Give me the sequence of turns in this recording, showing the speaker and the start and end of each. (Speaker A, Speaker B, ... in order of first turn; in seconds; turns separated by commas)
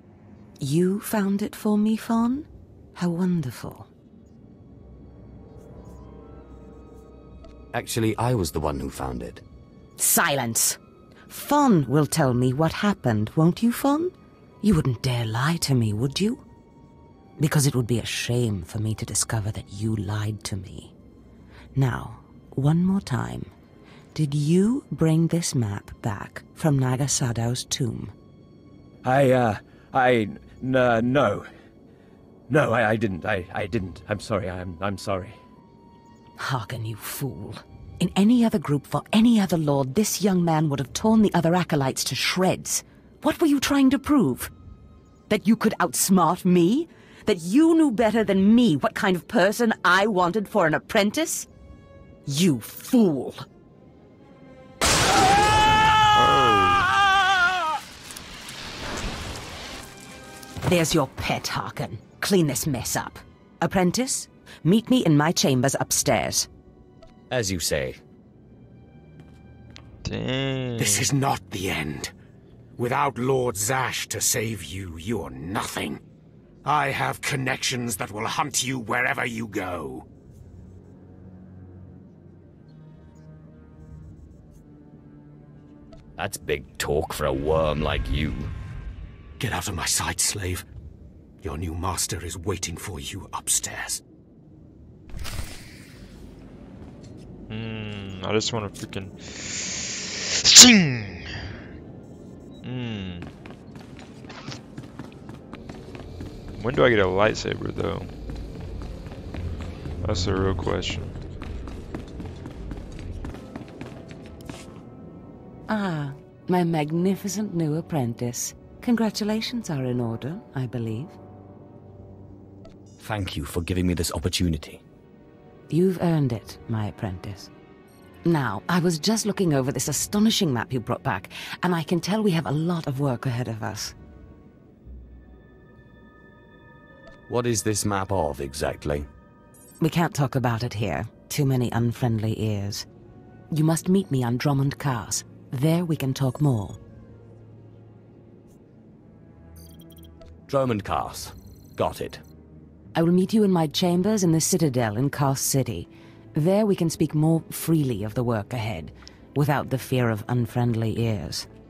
Speaker A: 0.6-3.9, Speaker B: 7.7-9.4, Speaker A: 10.0-16.4, Speaker A: 17.4-20.9, Speaker A: 21.8-23.5, Speaker A: 24.1-28.1, Speaker C: 29.0-31.5, Speaker C: 32.5-35.4, Speaker A: 36.4-44.5, Speaker A: 45.3-51.5, Speaker A: 52.3-53.5, Speaker D: 56.1-56.9, Speaker A: 60.6-66.5, Speaker B: 67.3-68.0, Speaker D: 70.0-71.1, Speaker E: 70.8-72.1, Speaker E: 72.8-76.0, Speaker E: 76.7-80.0, Speaker B: 86.2-88.5, Speaker E: 89.4-90.6, Speaker E: 91.4-94.0, Speaker D: 97.5-101.4, Speaker D: 102.6-103.3, Speaker D: 106.6-108.1, Speaker D: 110.0-111.2, Speaker A: 115.7-121.2, Speaker B: 123.0-124.8, Speaker A: 125.7-127.5, Speaker A: 128.2-133.9, Speaker B: 137.3-139.1, Speaker A: 139.8-142.9, Speaker A: 143.5-146.8, Speaker B: 150.5-152.2, Speaker A: 152.9-161.5